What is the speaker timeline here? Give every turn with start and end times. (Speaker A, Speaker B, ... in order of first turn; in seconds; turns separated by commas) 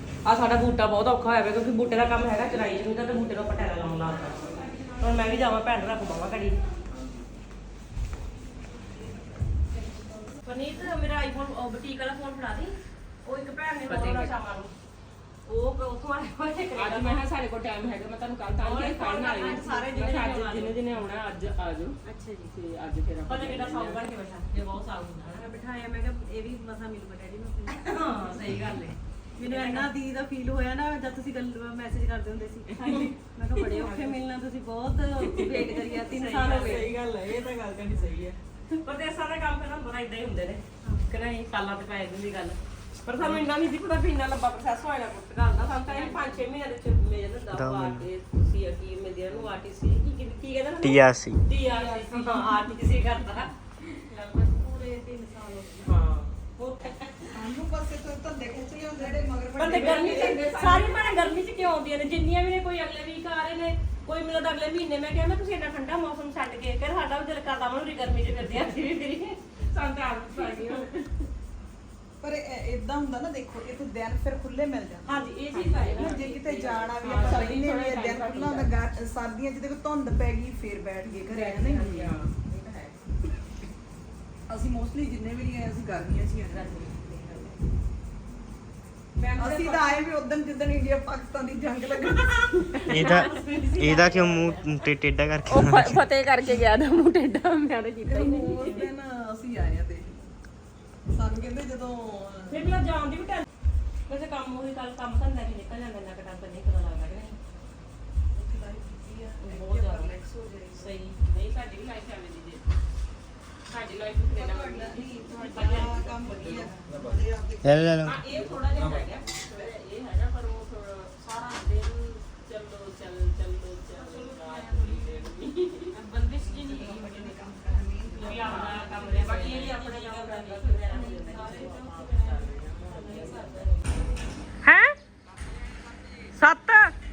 Speaker A: 0.2-4.4, Speaker B: 4.4-4.8, Speaker A: 5.0-6.5, Speaker A: 10.4-14.7, Speaker B: 13.9-14.3, Speaker A: 15.5-17.2, Speaker B: 16.7-22.0, Speaker A: 18.6-20.8, Speaker B: 22.5-24.0, Speaker A: 23.3-25.9, Speaker C: 26.2-27.5, Speaker A: 27.8-29.9, Speaker C: 29.9-32.6, Speaker B: 32.6-34.1, Speaker A: 32.8-36.9, Speaker B: 35.2-38.4, Speaker A: 38.8-53.5, Speaker B: 45.8-46.4, Speaker D: 47.5-48.0, Speaker D: 50.8-51.4, Speaker B: 51.6-52.6, Speaker C: 54.6-55.7, Speaker A: 55.8-56.9, Speaker E: 57.3-60.4, Speaker A: 59.5-69.4, Speaker B: 59.7-61.3, Speaker B: 69.7-71.1, Speaker A: 70.4-70.7, Speaker E: 72.2-75.1, Speaker A: 75.0-76.2, Speaker B: 75.5-78.7, Speaker E: 75.9-82.2, Speaker B: 81.3-82.6, Speaker E: 84.5-86.7, Speaker A: 86.8-87.1, Speaker A: 89.3-89.7, Speaker E: 89.3-93.1, Speaker A: 92.9-94.7, Speaker D: 92.9-96.0, Speaker B: 95.5-98.9, Speaker E: 98.0-100.2, Speaker E: 101.1-102.7, Speaker A: 102.5-103.4, Speaker A: 104.1-107.4, Speaker E: 108.3-110.9, Speaker A: 109.4-110.1, Speaker A: 110.8-111.2, Speaker B: 111.2-112.6, Speaker B: 113.7-116.2, Speaker E: 114.3-117.8, Speaker A: 115.5-115.9, Speaker D: 117.6-118.2, Speaker B: 118.0-126.9, Speaker E: 126.5-128.5, Speaker A: 128.2-130.4, Speaker B: 128.2-133.8, Speaker A: 134.6-134.9, Speaker A: 136.3-136.9